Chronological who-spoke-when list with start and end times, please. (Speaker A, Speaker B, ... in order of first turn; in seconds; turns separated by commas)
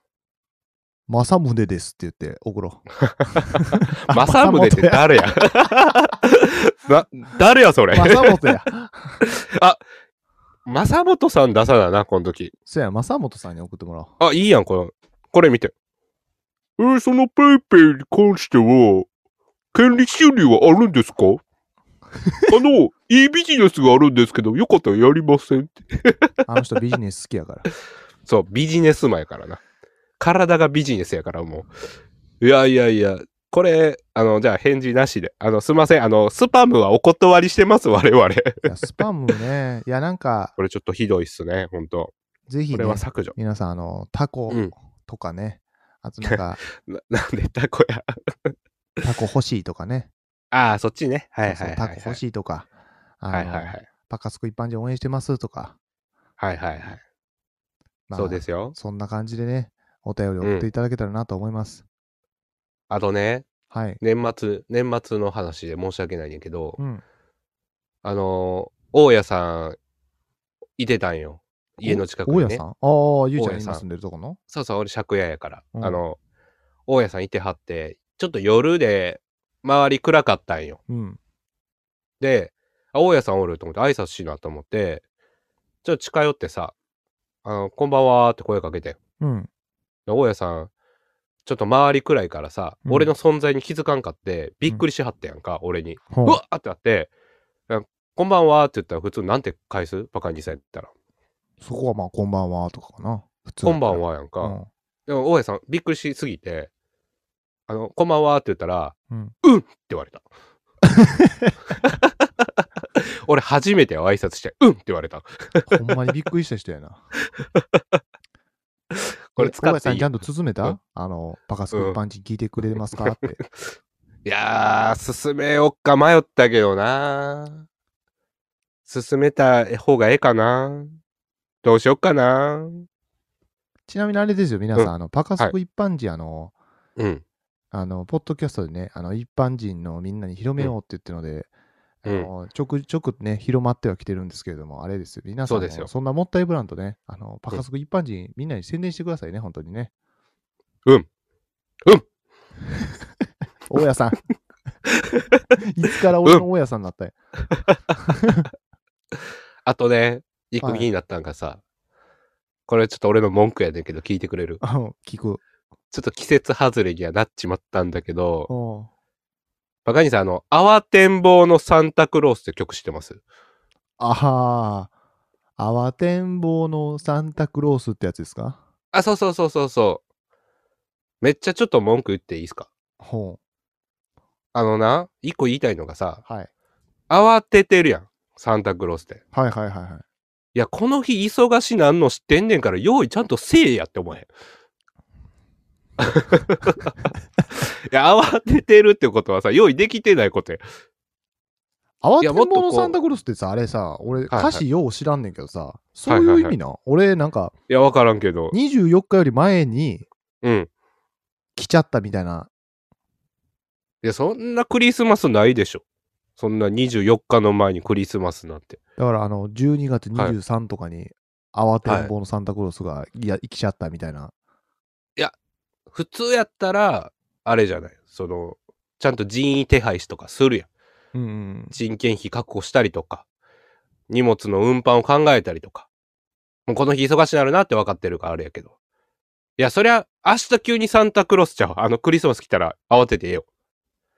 Speaker A: 1.1-2.9, Speaker B: 3.0-8.4, Speaker A: 3.5-5.0, Speaker A: 7.9-9.2, Speaker B: 9.2-9.8, Speaker B: 10.7-12.5, Speaker A: 12.7-14.1, Speaker B: 14.2-15.7, Speaker B: 16.8-19.1, Speaker B: 19.7-21.4, Speaker B: 22.5-26.3, Speaker A: 26.5-27.6, Speaker B: 28.2-29.6, Speaker B: 30.2-31.7, Speaker B: 32.4-38.7, Speaker A: 38.6-40.5, Speaker B: 40.6-42.1, Speaker A: 42.5-46.6, Speaker B: 42.7-43.3, Speaker B: 46.2-48.5, Speaker A: 49.0-50.1, Speaker B: 50.5-52.2, Speaker A: 51.5-52.7, Speaker A: 53.2-55.8, Speaker B: 53.3-53.9, Speaker B: 56.4-57.0, Speaker A: 58.1-61.8, Speaker B: 58.1-58.7, Speaker B: 60.4-60.7, Speaker B: 62.9-63.5, Speaker A: 63.7-64.0, Speaker B: 64.0-66.8, Speaker A: 66.8-67.0, Speaker B: 68.0-69.8, Speaker B: 70.8-72.6, Speaker A: 71.8-74.4, Speaker B: 73.4-73.8, Speaker B: 74.5-76.2, Speaker A: 75.7-76.0, Speaker B: 76.9-80.8, Speaker A: 80.9-81.2, Speaker B: 82.2-85.0, Speaker B: 85.8-86.7, Speaker B: 87.4-89.0, Speaker A: 89.2-89.5, Speaker B: 90.1-90.7, Speaker B: 91.4-97.1, Speaker A: 92.8-93.1, Speaker A: 96.1-96.4, Speaker B: 97.7-100.9, Speaker A: 101.6-104.7, Speaker B: 103.6-106.7, Speaker B: 107.7-110.2, Speaker A: 109.1-109.3, Speaker A: 110.9-111.5, Speaker B: 112.0-112.5, Speaker B: 113.2-115.7, Speaker A: 115.7-117.0, Speaker B: 118.9-120.8, Speaker A: 119.4-123.4, Speaker B: 121.7-122.0, Speaker B: 122.8-123.2, Speaker B: 124.2-127.7, Speaker B: 128.8-131.0, Speaker B: 131.6-132.9, Speaker A: 133.9-136.5, Speaker B: 134.8-135.5, Speaker B: 137.0-137.2, Speaker A: 137.7-141.5, Speaker A: 142.0-149.9, Speaker B: 142.0-142.3, Speaker B: 145.5-145.9, Speaker A: 153.7-154.2, Speaker A: 155.6-157.1, Speaker A: 158.0-158.5, Speaker B: 159.6-161.6, Speaker A: 160.6-160.9, Speaker B: 162.7-164.6, Speaker A: 164.6-165.4, Speaker B: 165.9-168.5, Speaker A: 168.5-168.9, Speaker B: 169.8-173.2, Speaker A: 174.0-174.9, Speaker A: 175.6-178.6, Speaker B: 178.9-180.0, Speaker B: 181.2-182.7, Speaker A: 183.0-183.4, Speaker B: 184.5-186.2, Speaker B: 187.1-189.2, Speaker A: 189.3-190.0, Speaker B: 190.5-194.3, Speaker B: 196.0-196.9, Speaker B: 197.6-200.6, Speaker A: 202.0-207.5, Speaker B: 202.2-203.0, Speaker B: 204.3-204.6, Speaker B: 206.1-206.6, Speaker B: 207.7-208.6, Speaker A: 208.5-210.1, Speaker B: 210.4-210.7, Speaker A: 211.6-212.5, Speaker B: 214.0-215.8, Speaker B: 216.4-218.8, Speaker A: 219.0-224.3, Speaker B: 221.8-222.1, Speaker B: 225.9-230.7, Speaker A: 231.1-231.8, Speaker B: 231.7-233.2, Speaker B: 234.1-235.9, Speaker B: 236.7-238.7, Speaker B: 239.6-243.4